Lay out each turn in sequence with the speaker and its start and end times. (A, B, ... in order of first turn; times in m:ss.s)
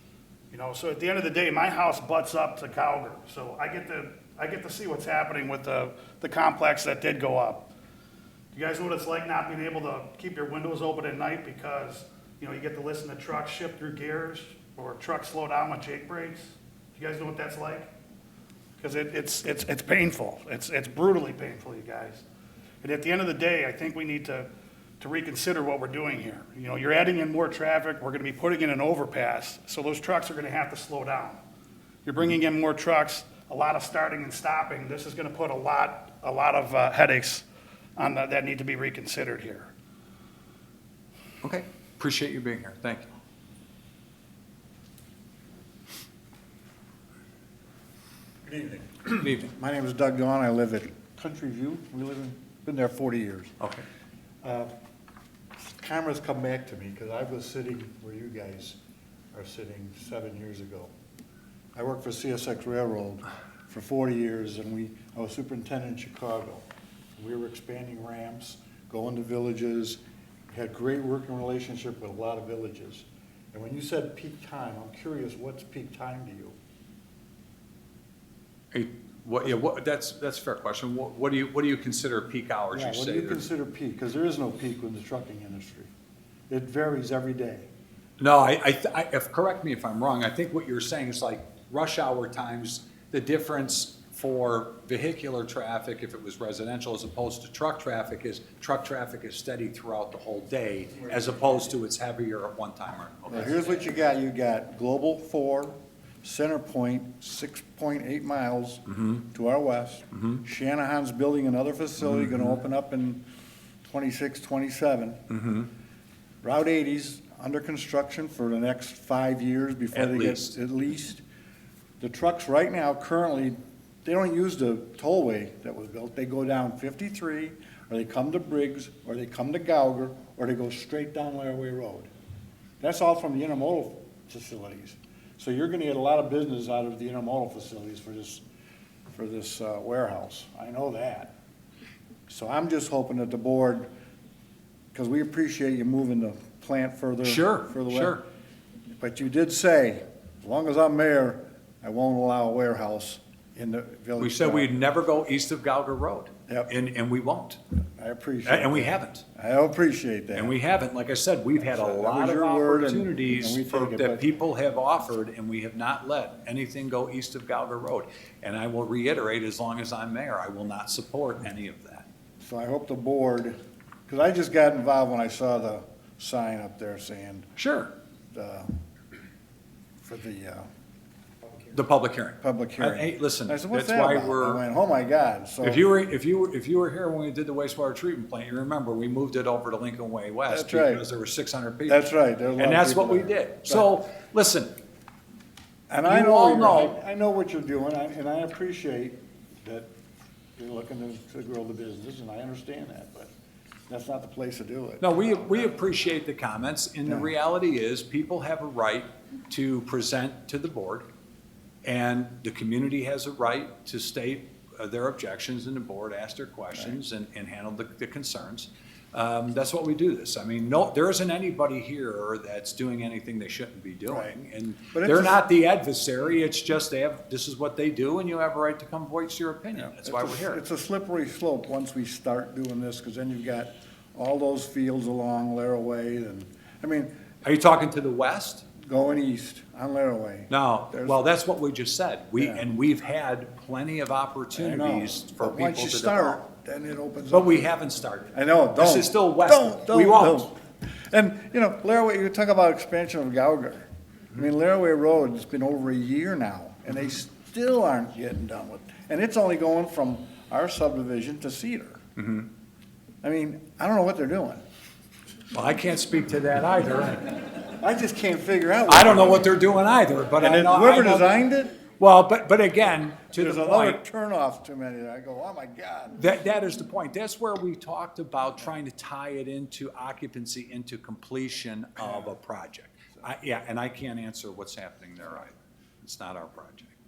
0:00.5-0:07.7 A
0:08.5-0:17.9 A
0:18.8-0:22.2 A
0:22.8-0:24.5 A
0:25.0-0:31.4 A
0:32.0-0:37.4 A
0:38.0-0:39.7 A
0:41.4-0:43.1 B
0:48.4-0:53.6 C
0:49.2-0:49.5 B
0:54.4-0:54.7 C
0:55.6-0:58.8 C
0:59.3-1:00.9 C
1:01.8-1:06.7 C
1:07.2-1:16.6 C
1:18.7-1:23.5 B
1:22.7-1:25.9 C
1:26.5-1:27.7 C
1:28.2-1:43.8 B
1:43.3-1:53.2 C
1:52.0-1:52.6 B
1:53.8-1:55.2 C
1:55.3-1:55.7 B
1:56.4-2:01.2 C
1:59.9-2:00.5 B
2:02.0-2:12.1 C
2:12.8-2:18.4 C
2:19.1-2:21.3 C
2:22.3-2:23.9 C
2:24.9-2:28.2 C
2:27.2-2:28.2 B
2:29.0-2:34.7 C
2:34.2-2:37.6 B
2:38.0-2:40.6 C
2:38.4-2:39.2 B
2:40.4-2:52.1 B
2:41.6-2:44.2 C
2:52.4-2:53.6 C
2:54.1-2:57.5 C
2:57.6-2:57.9 B
2:58.3-2:58.7 C
3:00.0-3:00.7 C
3:01.7-3:04.6 B
3:02.4-3:05.9 C
3:05.6-3:12.0 B
3:10.5-3:11.0 C
3:11.9-3:13.9 C
3:12.6-3:14.7 B
3:15.9-3:19.9 C
3:16.0-3:17.0 B
3:20.6-3:23.3 C
3:23.9-3:25.7 C
3:25.0-3:31.1 B
3:27.0-3:27.3 C
3:31.8-3:50.6 B
3:44.1-3:44.3 C
3:44.9-3:45.4 C
3:49.7-3:57.1 C
3:57.4-3:58.6 B
3:58.8-4:01.2 C
4:00.5-4:06.4 B
4:02.4-4:02.7 C
4:04.5-4:07.5 C
4:07.3-4:10.5 B
4:08.3-4:22.0 C
4:22.2-4:22.5 B
4:23.2-4:24.6 C
4:25.5-4:27.5 B
4:27.8-4:29.6 C
4:28.9-4:31.4 B
4:30.4-4:31.8 C
4:32.0-4:34.0 B
4:33.3-4:36.2 C
4:36.2-4:46.9 B
4:42.0-4:42.3 C